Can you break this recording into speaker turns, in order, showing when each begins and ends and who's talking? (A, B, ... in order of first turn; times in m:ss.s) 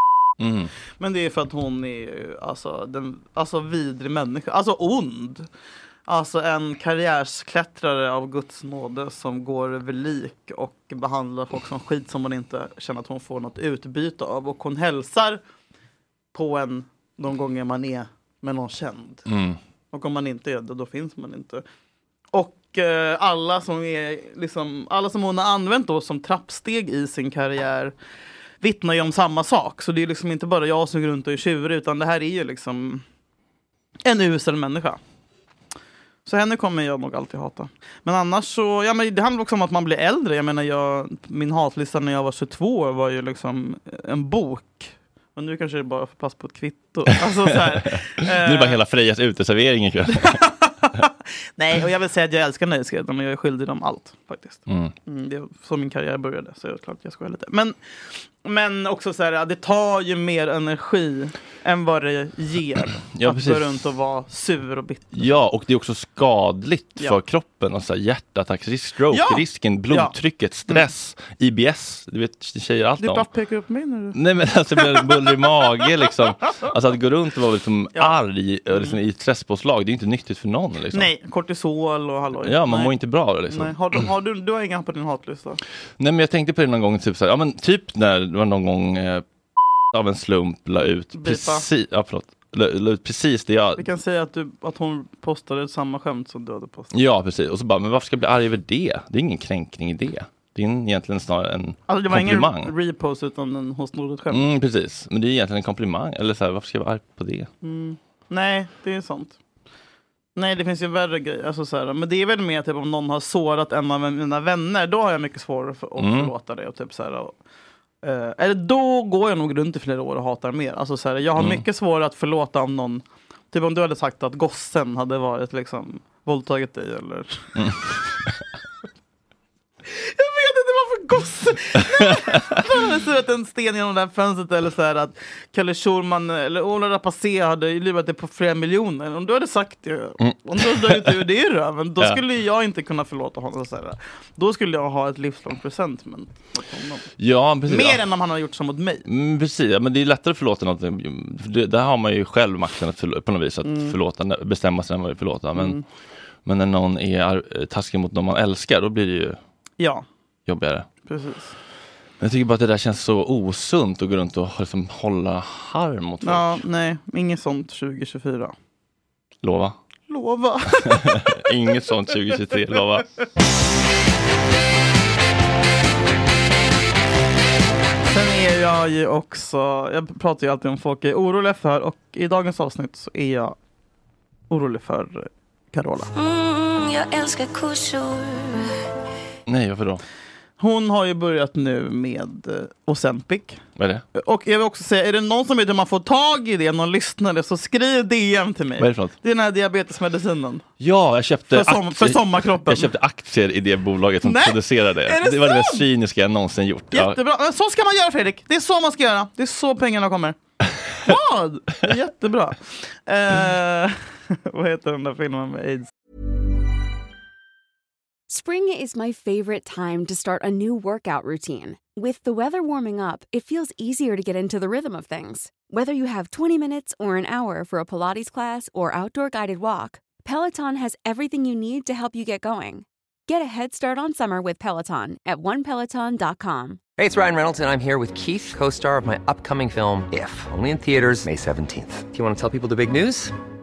0:00.4-0:00.7 A
0:01.0-0:05.5 B
0:06.1-0:15.4 B
0:16.3-0:19.3 B
0:19.3-0:19.6 A
0:19.9-0:21.6 B
0:22.3-0:27.9 B
0:28.6-0:33.0 B
0:34.0-0:35.0 B
0:36.3-0:48.8 B
0:48.2-0:50.5 A
0:50.2-0:57.8 B
0:54.7-0:54.9 A
0:58.4-1:05.2 B
1:02.9-1:03.8 A
1:05.1-1:13.3 A
1:09.1-1:10.2 B
1:13.0-1:14.2 B
1:14.2-1:21.1 A
1:14.8-1:15.3 B
1:18.7-1:19.0 B
1:20.9-1:22.9 B
1:22.4-1:23.8 A
1:23.5-1:25.6 B
1:26.0-1:29.2 A
1:29.9-1:33.8 A
1:31.2-1:31.7 B
1:33.8-1:36.9 B
1:36.9-1:42.7 A
1:41.9-1:44.5 B
1:44.3-1:47.5 A
1:47.6-1:49.4 B
1:50.4-1:57.4 B
1:56.0-1:56.3 A
1:58.0-2:07.6 B
2:01.4-2:01.6 A
2:09.9-2:27.1 B
2:20.2-2:21.2 A
2:27.2-2:28.0 A
2:27.7-2:29.0 B
2:29.1-2:35.8 A
2:33.6-2:34.0 B
2:35.6-2:35.8 B
2:36.4-2:39.4 A
2:39.8-2:40.1 B
2:40.5-2:40.9 A
2:41.1-2:41.5 B
2:42.2-2:46.6 A
2:46.2-2:48.6 B
2:49.4-2:49.8 A
2:50.1-2:51.4 B
2:50.9-2:53.1 A
2:58.1-3:03.6 B
3:04.5-3:06.1 B
3:06.1-3:08.8 C
3:09.5-3:10.0 A
3:10.6-3:13.6 B
3:13.8-3:14.0 A
3:14.2-3:20.6 B
3:18.8-3:19.2 A
3:20.8-3:27.2 A
3:21.5-3:22.9 B
3:24.2-3:25.8 B
3:26.9-3:30.4 B
3:31.0-3:35.9 B
3:38.3-3:56.8 D
3:57.0-4:03.3 E